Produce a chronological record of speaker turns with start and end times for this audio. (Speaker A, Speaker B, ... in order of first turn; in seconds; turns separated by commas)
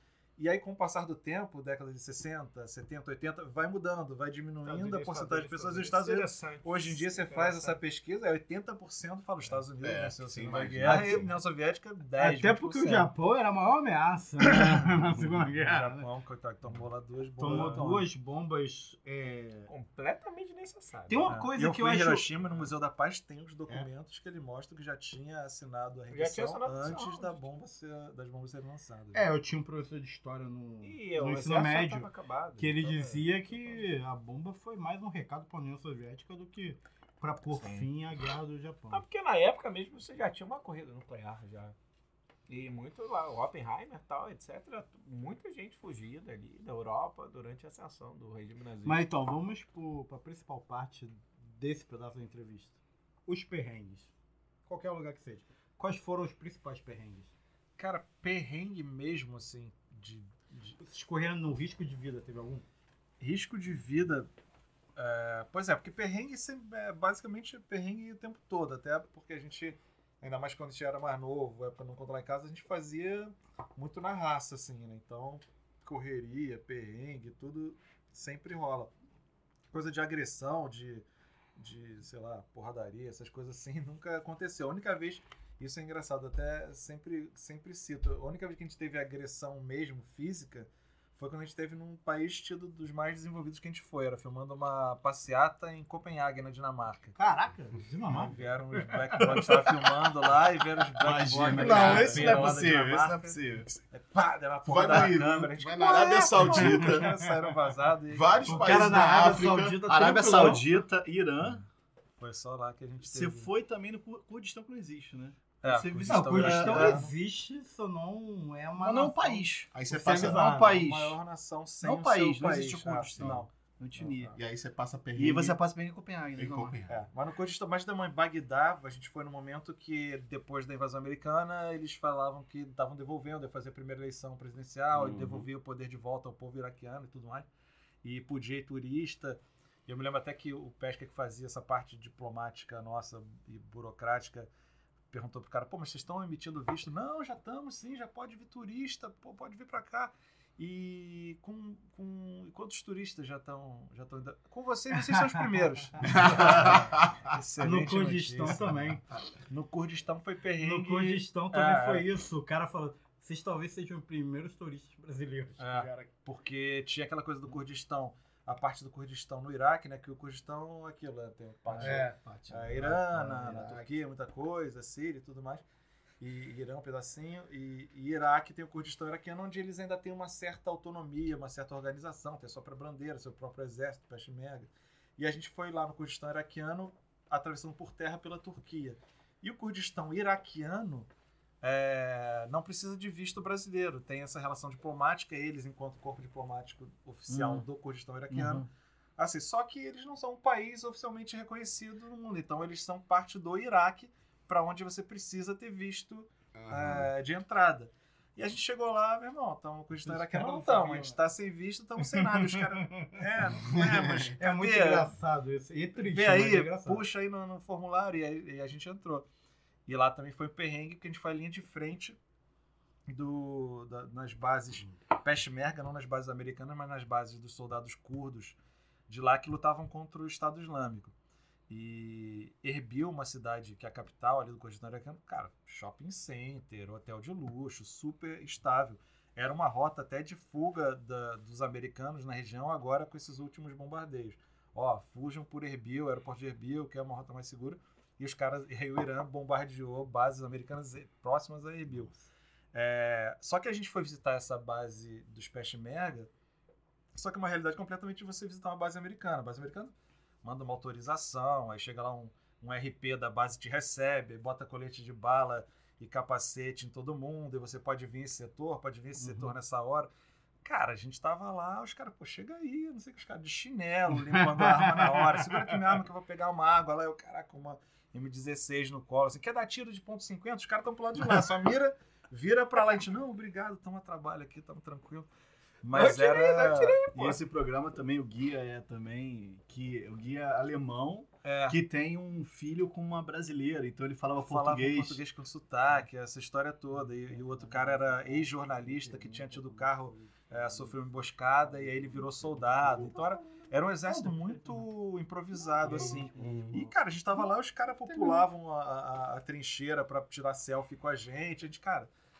Speaker A: 0.4-13.1, Speaker B: 4.6-7.8, Speaker C: 9.8-11.3, Speaker D: 10.8-11.3, Speaker D: 12.2-16.0, Speaker A: 14.4-14.9, Speaker A: 15.6-18.1, Speaker D: 17.4-19.7, Speaker B: 19.7-21.3, Speaker D: 21.1-22.5, Speaker A: 21.3-29.2, Speaker B: 26.1-27.4, Speaker D: 29.1-39.0, Speaker B: 30.8-33.8, Speaker B: 37.5-37.9, Speaker B: 38.9-41.7, Speaker B: 42.5-49.0, Speaker D: 48.8-54.1, Speaker D: 54.6-57.3, Speaker A: 57.8-60.8, Speaker D: 60.8-62.6, Speaker A: 63.2-64.3, Speaker A: 65.0-78.9, Speaker A: 79.7-81.0, Speaker A: 81.6-97.2, Speaker D: 97.2-99.8, Speaker A: 98.1-103.3, Speaker C: 101.0-102.7, Speaker E: 101.5-103.7, Speaker A: 103.9-108.9, Speaker C: 104.7-107.1, Speaker D: 106.5-107.2, Speaker C: 108.1-109.8, Speaker D: 108.5-110.7, Speaker E: 109.8-111.6, Speaker A: 112.2-113.5, Speaker E: 113.1-117.0, Speaker A: 115.6-117.1, Speaker D: 116.0-120.8, Speaker E: 118.8-121.2, Speaker C: 119.7-120.4, Speaker A: 120.6-124.3, Speaker E: 121.8-124.3, Speaker C: 123.2-123.4, Speaker C: 124.3-125.6, Speaker E: 125.1-126.8, Speaker C: 126.4-127.0, Speaker A: 126.9-137.5, Speaker C: 134.9-135.4, Speaker A: 138.0-144.5, Speaker A: 145.1-162.1, Speaker D: 155.1-155.5, Speaker D: 156.0-156.6, Speaker C: 156.0-157.3, Speaker D: 157.6-159.0, Speaker D: 160.6-166.1, Speaker A: 165.6-175.6, Speaker E: 171.7-173.9, Speaker D: 171.7-172.2, Speaker A: 176.2-191.1, Speaker A: 191.6-198.7, Speaker E: 197.3-197.6, Speaker E: 198.3-198.6, Speaker A: 199.2-215.1, Speaker C: 206.5-207.1, Speaker D: 210.0-211.2, Speaker D: 212.0-213.1, Speaker C: 213.5-214.3, Speaker D: 214.4-217.0, Speaker A: 216.0-219.2, Speaker A: 219.8-222.2, Speaker A: 223.1-228.6, Speaker A: 229.1-231.1, Speaker A: 231.7-252.1, Speaker A: 252.7-256.3, Speaker A: 257.1-270.1, Speaker D: 269.2-269.5, Speaker A: 270.6-285.3, Speaker D: 274.4-275.3, Speaker A: 285.8-287.0, Speaker B: 285.9-287.4, Speaker E: 287.0-295.2, Speaker A: 291.4-291.8, Speaker A: 294.4-312.1, Speaker D: 297.0-300.9, Speaker D: 303.0-304.3, Speaker C: 305.9-306.8, Speaker D: 305.9-306.5, Speaker E: 308.1-308.4